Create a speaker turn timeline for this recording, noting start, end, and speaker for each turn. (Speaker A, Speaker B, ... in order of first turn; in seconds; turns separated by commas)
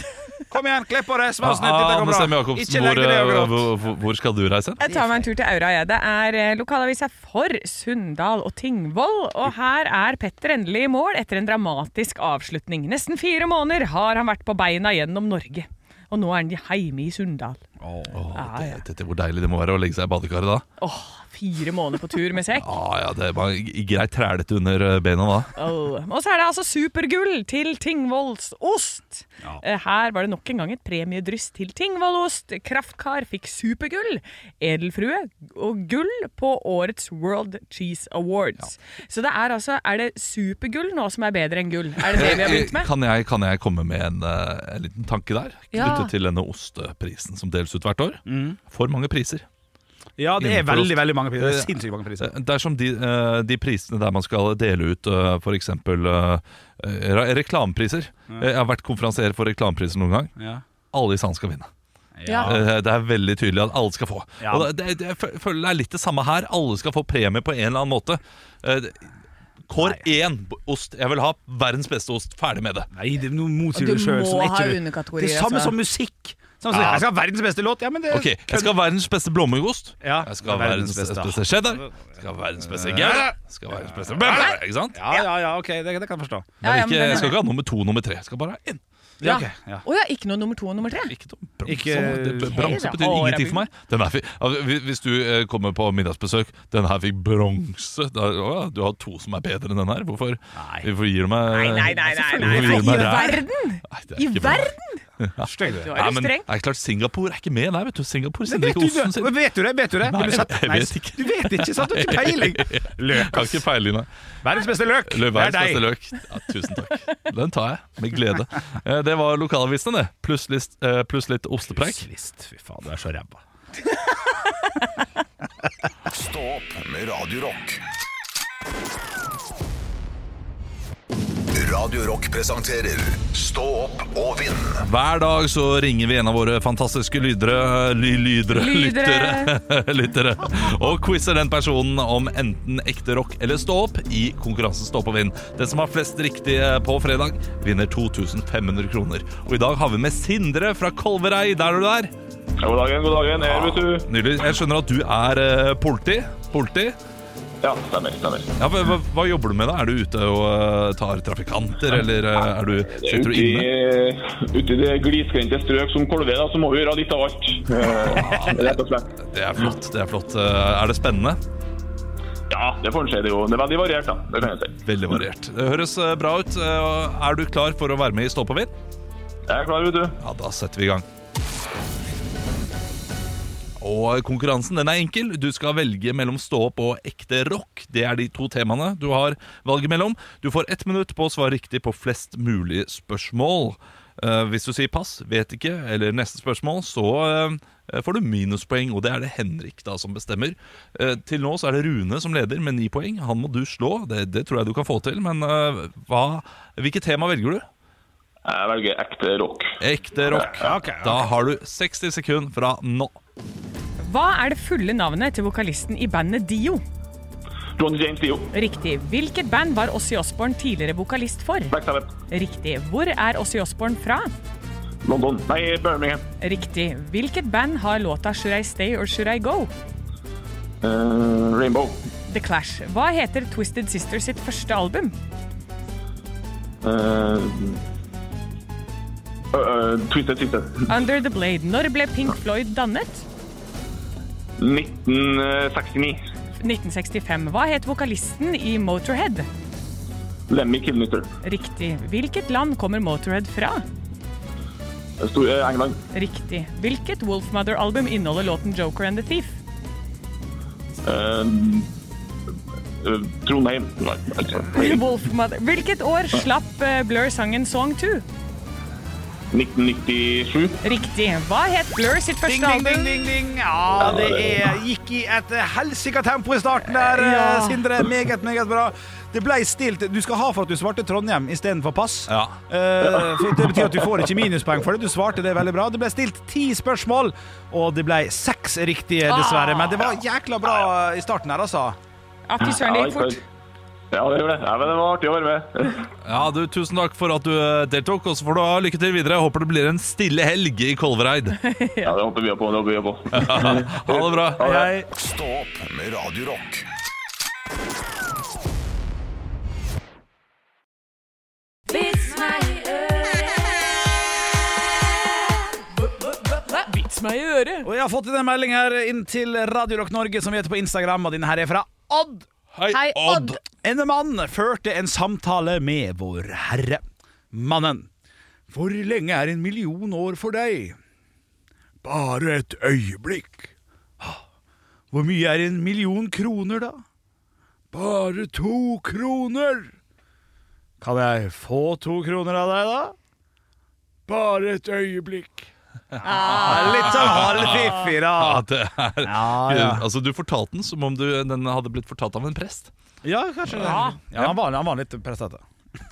Speaker A: 0.5-3.7, Speaker B: 1.4-4.9, Speaker C: 4.8-17.6, Speaker A: 4.8-5.2, Speaker A: 17.8-18.2, Speaker B: 18.1-20.6, Speaker C: 18.4-18.8, Speaker C: 20.8-22.7, Speaker B: 22.6-25.5, Speaker C: 25.6-42.9, Speaker B: 42.0-49.5, Speaker C: 45.7-46.1, Speaker A: 48.3-48.6, Speaker A: 50.2-52.3, Speaker B: 50.4-60.3, Speaker A: 60.4-60.6, Speaker B: 60.9-61.7, Speaker A: 62.2-62.7, Speaker C: 62.3-62.5, Speaker B: 62.4-69.1, Speaker A: 64.4-64.7, Speaker B: 69.7-72.9, Speaker A: 69.8-70.0, Speaker A: 72.9-78.8, Speaker C: 73.8-75.8, Speaker B: 76.7-77.0, Speaker B: 78.1-85.0, Speaker A: 80.0-82.1, Speaker A: 82.6-86.6, Speaker C: 86.6-87.4, Speaker B: 86.6-88.8, Speaker A: 89.2-89.8, Speaker C: 89.2-91.1, Speaker B: 91.0-109.3, Speaker A: 91.7-92.7, Speaker C: 92.5-93.7, Speaker A: 100.5-100.9, Speaker C: 101.5-105.0, Speaker A: 101.8-103.4, Speaker A: 105.4-106.0, Speaker C: 105.7-106.5, Speaker A: 108.5-113.7, Speaker B: 110.0-114.1, Speaker A: 114.4-115.9, Speaker B: 115.1-122.1, Speaker A: 121.7-123.4, Speaker D: 126.1-127.8, Speaker D: 131.5-134.8, Speaker B: 134.8-152.1, Speaker C: 138.5-139.6, Speaker E: 152.6-154.1, Speaker B: 153.4-157.0, Speaker E: 157.6-158.5, Speaker B: 158.6-163.7, Speaker E: 162.8-169.7, Speaker B: 168.0-171.4, Speaker E: 172.5-174.8, Speaker B: 174.8-178.7, Speaker E: 179.5-180.2, Speaker B: 180.2-181.1, Speaker B: 183.8-207.7, Speaker E: 208.4-210.7, Speaker B: 209.8-213.2, Speaker A: 210.5-211.3, Speaker C: 214.0-216.8, Speaker E: 217.8-218.5, Speaker C: 218.5-221.8, Speaker E: 221.7-222.2, Speaker C: 222.3-224.3, Speaker E: 225.0-226.2, Speaker C: 226.4-229.7, Speaker E: 230.8-232.1, Speaker C: 232.3-235.2, Speaker E: 236.8-237.8, Speaker E: 239.5-240.9, Speaker C: 240.9-243.2, Speaker E: 244.6-246.2, Speaker C: 246.6-249.5, Speaker E: 250.5-251.3, Speaker C: 251.4-253.8, Speaker E: 255.2-256.0, Speaker C: 256.1-259.6, Speaker E: 261.0-261.9, Speaker E: 263.0-265.0, Speaker C: 264.7-268.2, Speaker E: 269.5-270.8, Speaker C: 270.8-273.3, Speaker A: 272.4-292.0, Speaker E: 274.0-274.6, Speaker C: 276.9-277.9, Speaker B: 282.3-282.6, Speaker C: 289.2-290.1, Speaker C: 292.5-293.4, Speaker E: 292.6-293.4, Speaker E: 294.1-296.1, Speaker B: 296.2-301.6, Speaker C: 301.6-302.1, Speaker E: 302.0-304.9, Speaker B: 303.3-304.6, Speaker A: 304.6-305.1, Speaker D: 305.1-306.9, Speaker C: 311.9-313.8, Speaker C: 316.5-317.9, Speaker A: 317.8-322.5, Speaker B: 322.7-323.6, Speaker C: 322.9-323.6, Speaker A: 323.8-328.1, Speaker A: 328.7-331.0, Speaker A: 332.0-334.4, Speaker A: 335.1-337.0, Speaker A: 337.9-339.9, Speaker A: 341.0-343.2, Speaker A: 344.3-345.7, Speaker B: 346.1-352.9, Speaker C: 346.2-347.9, Speaker A: 346.2-348.7, Speaker A: 349.2-350.1, Speaker A: 353.2-355.6, Speaker C: 353.8-354.2, Speaker B: 353.9-354.6